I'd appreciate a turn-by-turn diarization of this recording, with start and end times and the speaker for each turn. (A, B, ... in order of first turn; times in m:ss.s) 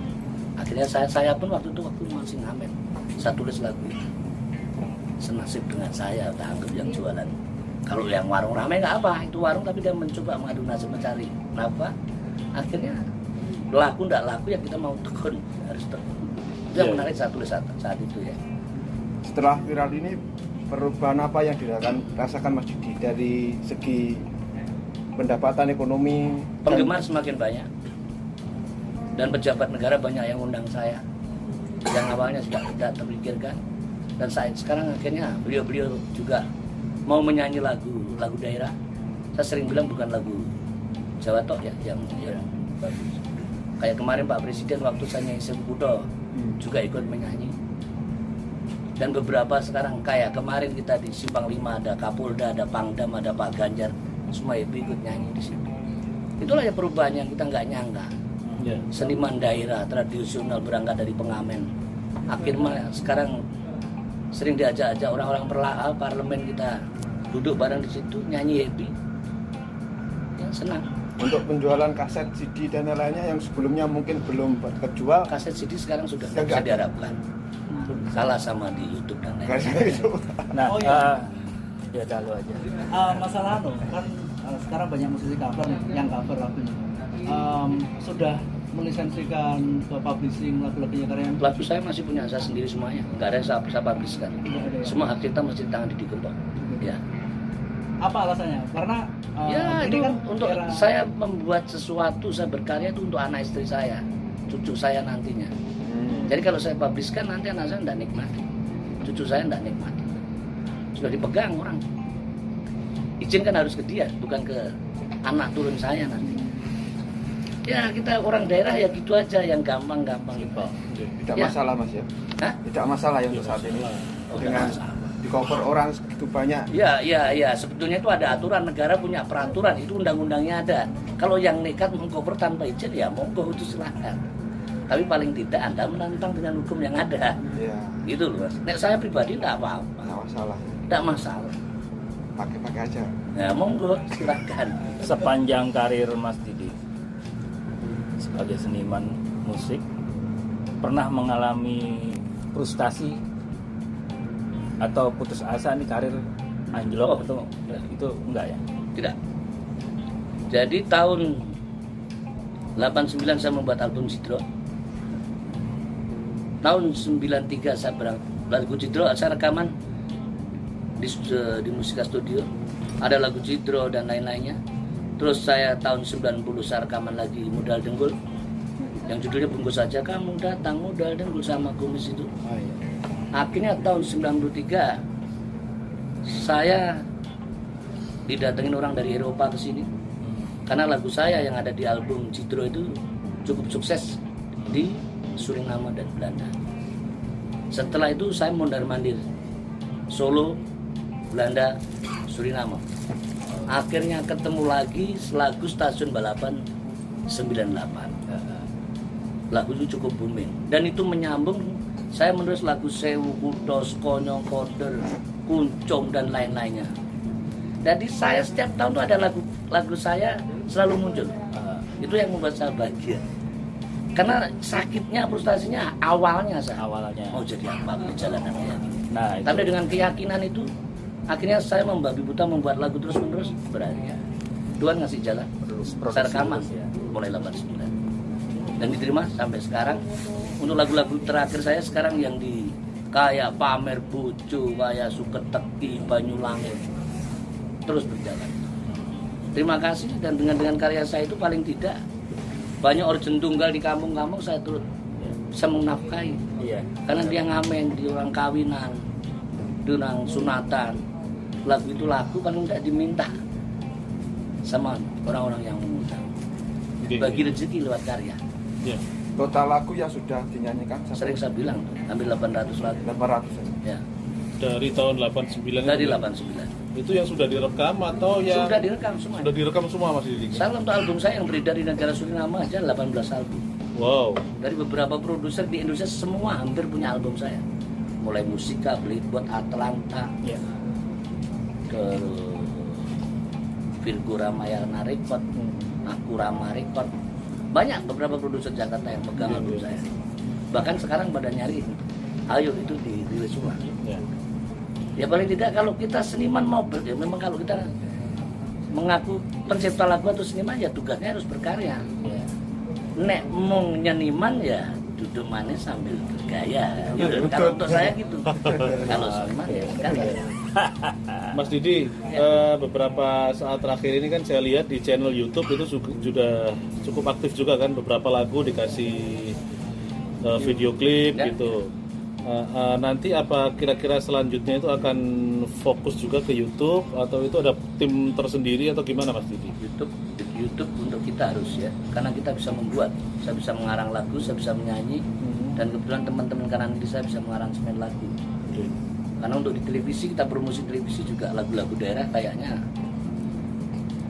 0:00.6-0:04.0 A
0:05.2-0:11.9 A
0:12.6-0:13.0 A
0:13.7-0:18.4 A
0:16.8-0:17.1 B
0:19.2-0:20.2 C
0:20.7-0:24.2 C
0:25.2-0:27.0 C
0:26.6-0:27.7 A
0:29.1-0:31.0 A
0:31.9-0:33.6 A
0:34.2-0:36.4 A
0:37.1-0:38.7 A
0:39.3-0:40.5 A
0:41.2-0:46.1 A
0:46.6-0:47.5 A
0:49.0-0:55.7 A
0:56.4-0:58.1 A
0:58.6-0:58.8 B
0:58.9-1:01.7 A
1:02.3-1:03.4 A
1:04.3-1:08.9 A
1:10.4-1:10.9 A
1:11.2-1:15.3 C
1:15.3-1:17.2 A
1:16.3-1:16.8 C
1:18.0-1:20.1 A
1:19.4-1:20.6 C
1:20.5-1:21.3 D
1:20.6-1:21.1 E
1:21.9-1:23.2 D
1:22.8-1:31.4 E
1:31.4-1:37.0 A
1:34.4-1:35.0 E
1:36.6-1:36.9 E
1:38.0-1:40.9 E
1:39.4-1:45.5 A
1:45.8-1:46.3 C
1:46.3-1:48.4 A
1:49.0-1:50.2 A
1:50.9-1:51.8 A
1:53.2-1:54.6 A
1:55.3-1:56.4 A
1:57.6-2:00.7 A
2:00.6-2:01.2 B
2:01.2-2:02.1 C
2:02.6-2:06.7 C
2:03.3-2:04.2 B
2:04.3-2:05.2 A
2:06.7-2:14.2 A
2:14.9-2:17.4 A
2:17.5-2:18.0 C
2:18.0-2:20.1 A
2:20.0-2:20.7 C
2:20.9-2:21.5 A
2:22.4-2:23.1 C
2:23.3-2:25.0 A
2:25.0-2:26.7 D
2:28.2-2:29.8 D
2:30.8-2:33.2 D
2:34.8-2:36.2 D
2:36.7-2:38.6 D
2:40.5-2:41.5 A
2:42.8-2:44.4 A
2:46.6-2:49.7 A
2:51.0-2:52.5 A
2:53.0-2:54.6 A
2:55.2-2:58.2 A
2:59.1-3:02.3 A
3:02.4-3:02.8 D
3:03.4-3:05.0 A
3:06.2-3:07.0 A
3:08.3-3:09.9 A
3:10.2-3:10.5 D
3:10.6-3:12.9 A
3:13.4-3:16.5 A
3:17.7-3:19.2 A
3:20.1-3:20.6 A
3:21.3-3:21.8 A
3:22.3-3:22.8 A
3:23.7-3:26.6 A
3:27.3-3:28.2 A
3:28.3-3:28.7 D
3:29.5-3:36.9 A
3:37.8-3:41.4 A
3:41.5-3:41.8 D
3:42.0-3:43.2 A
3:44.2-3:48.9 A
3:46.8-3:47.4 D
3:49.1-3:49.7 D
3:49.4-3:50.7 A
3:51.3-3:54.2 A
3:54.8-3:55.5 A
3:55.6-3:56.9 D
3:56.1-3:57.9 A
3:58.8-4:00.0 A
4:00.6-4:06.9 A
4:07.8-4:08.7 A
4:09.5-4:12.0 A
4:12.8-4:14.8 A
4:15.5-4:16.4 A
4:16.6-4:17.3 D
4:17.0-4:19.0 A
4:19.8-4:21.0 A
4:21.6-4:23.3 A
4:24.6-4:26.3 A
4:27.0-4:27.4 B
4:27.1-4:28.4 A
4:29.4-4:31.4 C
4:31.2-4:33.0 A
4:33.0-4:33.8 C
4:34.6-4:36.2 B
4:35.8-4:36.7 A
4:36.9-4:38.8 B
4:38.5-4:39.5 A
4:39.4-4:40.6 B
4:40.5-4:43.6 A
4:44.0-4:44.4 B
4:44.6-4:47.6 A
4:48.2-4:50.3 A
4:51.9-4:53.0 A
4:54.0-4:55.4 A
4:55.6-4:55.9 B
4:56.0-4:57.1 A
4:57.7-5:00.1 A
4:59.4-4:59.9 B
5:00.7-5:03.8 A
5:05.2-5:07.9 A
5:08.9-5:12.0 A
5:13.2-5:20.5 A
5:17.1-5:18.1 C
5:18.6-5:19.0 B
5:18.7-5:19.0 C
5:18.9-5:21.5 D
5:21.5-5:29.6 B
5:30.4-5:31.9 B
5:31.3-5:31.6 A
5:32.4-5:39.7 B
5:39.8-5:45.2 A
5:45.4-5:45.8 B
5:45.8-5:48.3 A
5:48.7-5:48.9 B
5:49.4-5:52.8 A